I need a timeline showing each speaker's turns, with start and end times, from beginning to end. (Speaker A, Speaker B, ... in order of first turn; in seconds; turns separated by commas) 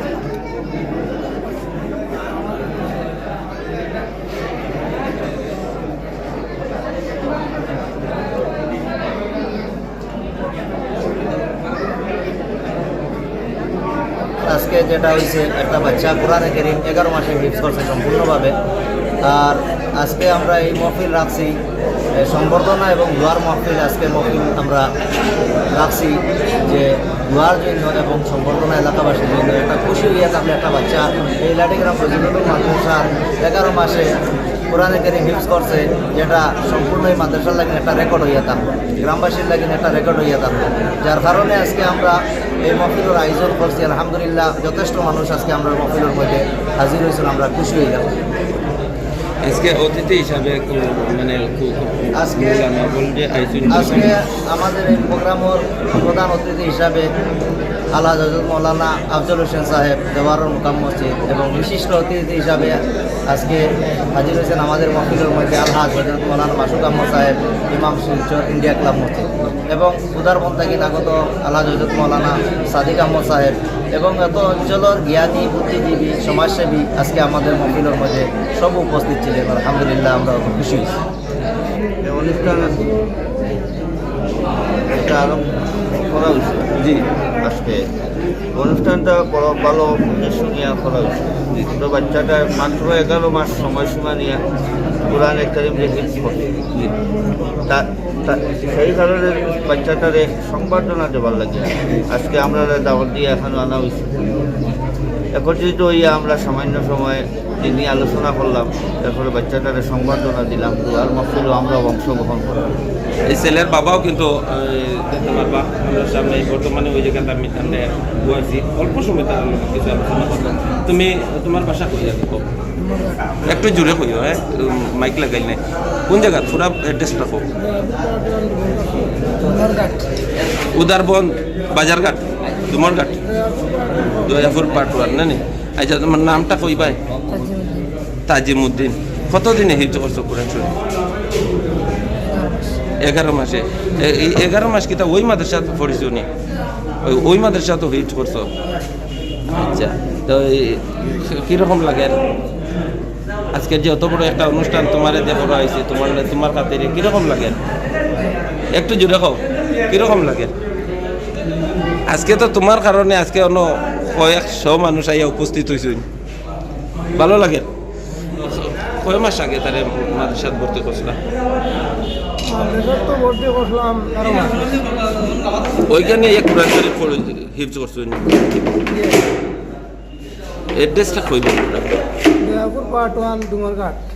Speaker A: 14.4-18.5, Speaker A: 19.2-21.5, Speaker A: 22.2-24.9, Speaker A: 25.8-34.1, Speaker A: 34.7-48.1, Speaker B: 49.4-54.1, Speaker A: 52.2-52.6, Speaker A: 53.7-57.1, Speaker A: 57.9-62.8, Speaker A: 63.3-63.6, Speaker A: 64.1-81.0, Speaker C: 82.0-82.9, Speaker C: 84.9-86.8, Speaker C: 87.4-87.8, Speaker C: 88.5-94.4, Speaker C: 95.1-96.6, Speaker C: 97.7-104.2, Speaker C: 105.3-112.8, Speaker B: 113.3-122.5, Speaker B: 123.5-127.5, Speaker D: 127.6-130.1, Speaker B: 130.7-133.2, Speaker D: 133.3-134.2, Speaker B: 134.2-137.0, Speaker D: 137.3-137.9, Speaker B: 138.3-140.8, Speaker D: 142.3-142.7, Speaker B: 143.0-146.3, Speaker B: 147.0-148.5, Speaker B: 149.5-152.2, Speaker B: 153.5-157.6, Speaker B: 158.8-160.5, Speaker B: 162.1-166.0, Speaker B: 167.2-167.7, Speaker B: 168.5-171.2, Speaker D: 172.5-174.6, Speaker B: 175.9-178.9, Speaker B: 180.8-182.0, Speaker D: 182.4-184.0